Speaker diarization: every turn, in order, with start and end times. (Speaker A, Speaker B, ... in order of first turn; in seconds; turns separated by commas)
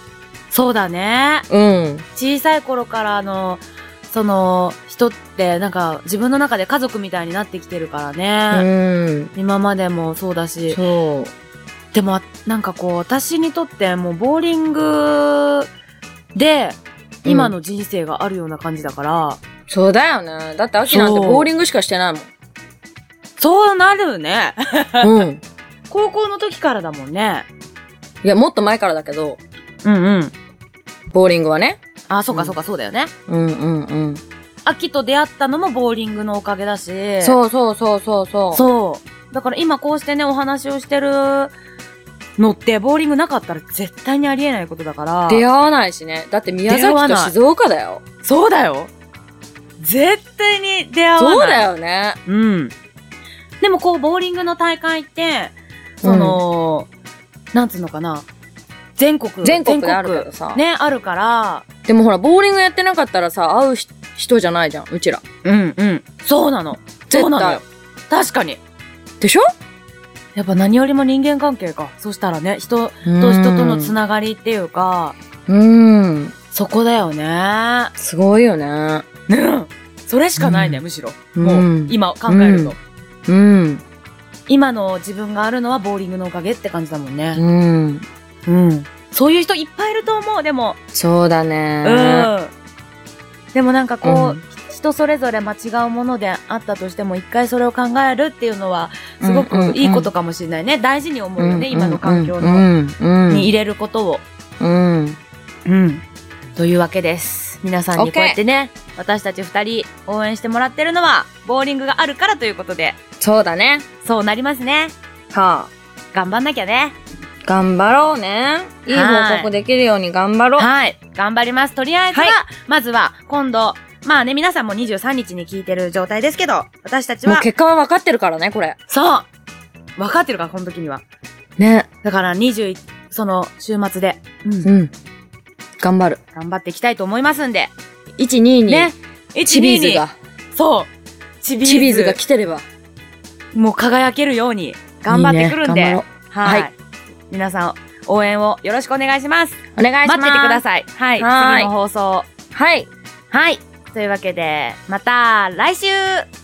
Speaker A: 0.5-1.5, Speaker B: 1.5-2.0, Speaker A: 2.2-8.7, Speaker B: 8.5-9.3, Speaker A: 9.3-10.8, Speaker B: 10.7-11.3, Speaker A: 11.9-15.7, Speaker A: 16.4-19.4, Speaker B: 17.2-17.5, Speaker B: 19.7-22.3, Speaker A: 20.9-21.5, Speaker A: 23.4-25.1, Speaker B: 25.0-25.4, Speaker A: 25.9-27.5, Speaker B: 28.2-29.4, Speaker A: 29.8-30.3, Speaker B: 31.1-31.8, Speaker A: 32.1-33.1, Speaker B: 32.3-32.6, Speaker B: 33.3-34.2, Speaker A: 34.6-37.4, Speaker B: 37.2-38.6, Speaker A: 38.5-41.5, Speaker A: 42.4-45.5, Speaker B: 45.3-48.0, Speaker A: 46.7-47.3, Speaker A: 48.2-48.9, Speaker A: 49.8-51.6, Speaker B: 51.2-52.2, Speaker A: 52.3-52.7, Speaker A: 53.6-56.9, Speaker B: 56.0-56.4, Speaker A: 57.5-58.3, Speaker A: 59.0-61.7, Speaker B: 59.4-60.6, Speaker B: 61.9-65.2, Speaker A: 65.4-68.6, Speaker B: 67.1-67.6, Speaker B: 69.2-69.5, Speaker A: 70.4-75.2, Speaker B: 73.0-74.0, Speaker B: 75.5-76.3, Speaker A: 76.5-77.9, Speaker B: 78.0-79.0, Speaker A: 79.3-82.8, Speaker B: 80.4-80.8, Speaker B: 81.4-82.8, Speaker B: 83.3-83.8, Speaker A: 84.5-87.4, Speaker B: 87.4-88.1, Speaker A: 88.5-90.8, Speaker B: 90.9-92.3, Speaker A: 91.8-92.5, Speaker A: 93.5-102.7, Speaker B: 94.0-94.4, Speaker B: 99.2-100.1, Speaker B: 101.4-103.5, Speaker A: 103.3-104.2, Speaker B: 104.6-105.2, Speaker A: 105.7-106.0, Speaker A: 106.6-113.0, Speaker B: 108.0-108.4, Speaker B: 113.2-113.9, Speaker A: 114.0-115.0, Speaker B: 115.3-115.7, Speaker A: 116.1-117.0, Speaker B: 117.4-120.7, Speaker A: 118.9-119.5, Speaker A: 120.6-127.5, Speaker B: 122.1-122.4, Speaker B: 127.3-128.8, Speaker A: 128.9-129.3, Speaker A: 130.0-131.0, Speaker B: 131.6-131.9, Speaker A: 132.0-134.7, Speaker B: 134.6-134.9, Speaker B: 135.8-136.2, Speaker A: 136.3-137.7, Speaker B: 138.2-138.9, Speaker A: 138.7-140.9, Speaker B: 139.5-140.2, Speaker A: 141.4-142.2, Speaker B: 141.6-142.7, Speaker A: 143.5-146.7, Speaker B: 145.1-146.7, Speaker A: 147.3-152.3, Speaker B: 149.8-150.6, Speaker B: 151.2-151.7, Speaker B: 152.5-152.9, Speaker A: 153.3-156.2